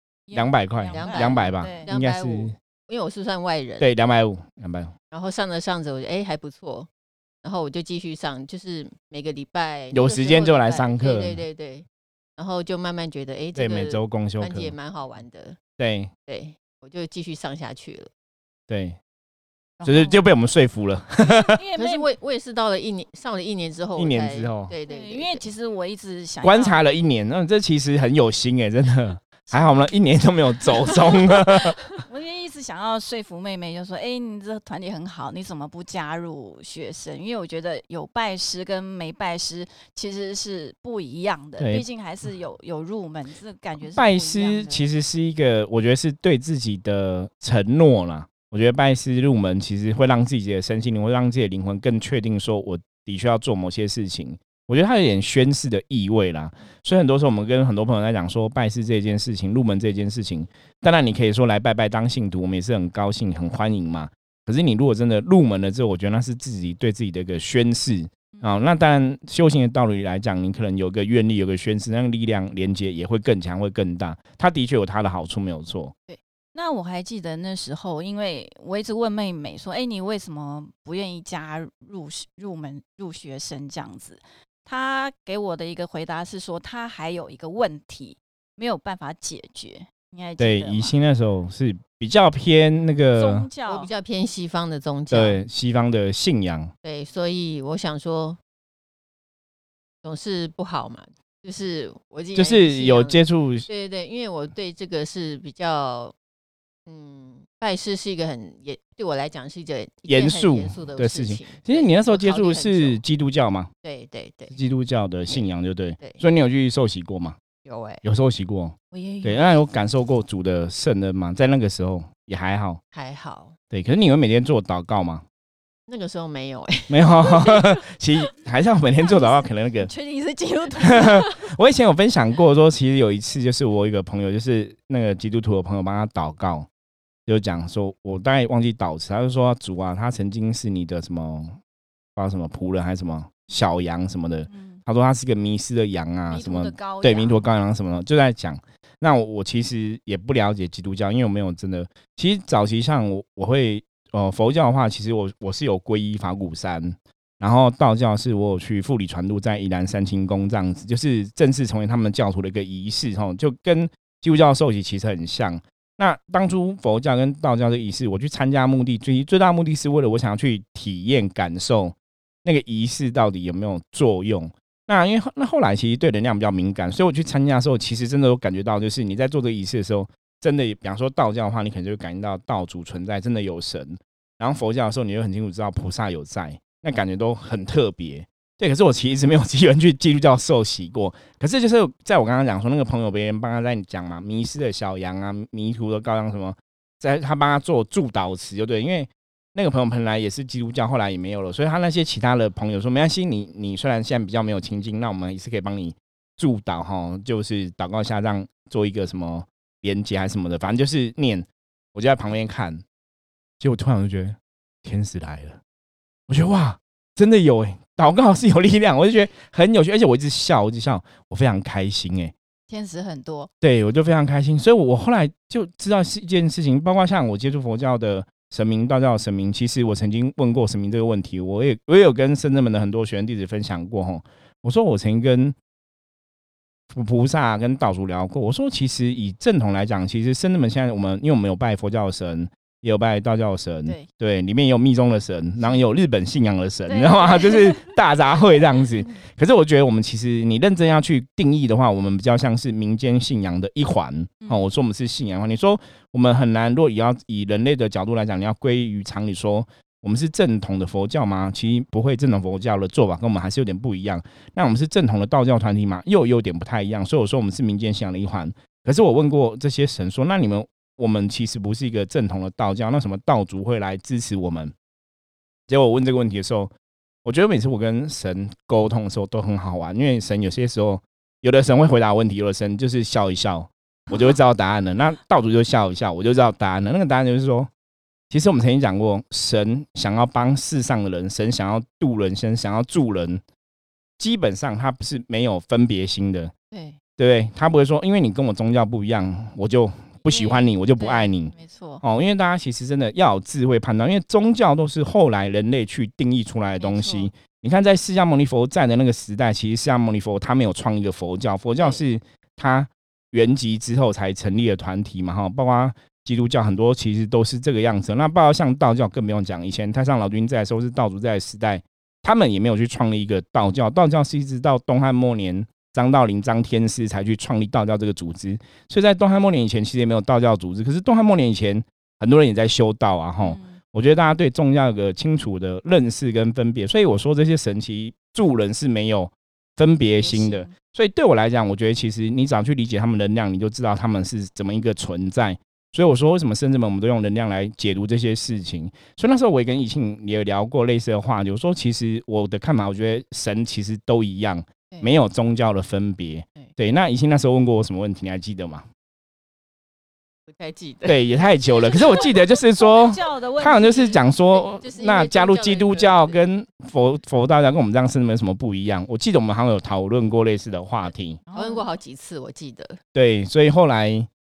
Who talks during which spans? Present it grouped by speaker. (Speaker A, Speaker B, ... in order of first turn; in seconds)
Speaker A: 0.3-1.9, 19.8-20.2, 21.2-22.1, 24.9-26.8, 29.5-29.9, 32.1-44.8, 76.5-91.0, 93.1-93.9, 118.9-119.8, 129.0-131.3, 144.5-144.8, 146.3-147.4, 222.7-223.5, 246.9-248.0, 254.4-254.7, 296.7-297.0, 300.2-302.0, 306.8-307.3, 333.4-333.8, 340.1-340.7, 362.8-364.2, 371.5-371.9
Speaker B: 0.3-2.5, 3.8-4.9, 9.9-11.4, 13.5-14.7, 15.8-16.1, 18.7-19.0, 19.8-21.6, 23.9-24.7, 26.4-31.8, 41.6-41.8, 43.9-75.9, 90.4-93.5, 95.1-96.7, 102.3-103.7, 110.1-113.7, 114.5-117.4, 118.0-122.8, 123.7-125.2, 126.9-129.9, 130.8-136.7, 137.3-141.6, 142.2-212.8, 213.6-215.6, 216.3-222.3, 223.6-235.6, 236.9-274.7, 275.7-276.7, 277.2-287.7, 288.3-293.4, 294.2-296.5, 297.2-358.9, 361.1-371.4, 373.1-374.3
Speaker C: 0.9-3.9, 5.1-6.9, 7.4-11.8, 12.4-15.6, 16.3-18.1, 21.8-25.4, 93.7-95.4, 96.8-98.4, 100.0-106.1, 106.8-113.0, 113.8-114.6, 117.6-118.0, 122.9-123.5, 125.9-127.7, 360.5-362.3, 364.5-366.4, 371.5-373.0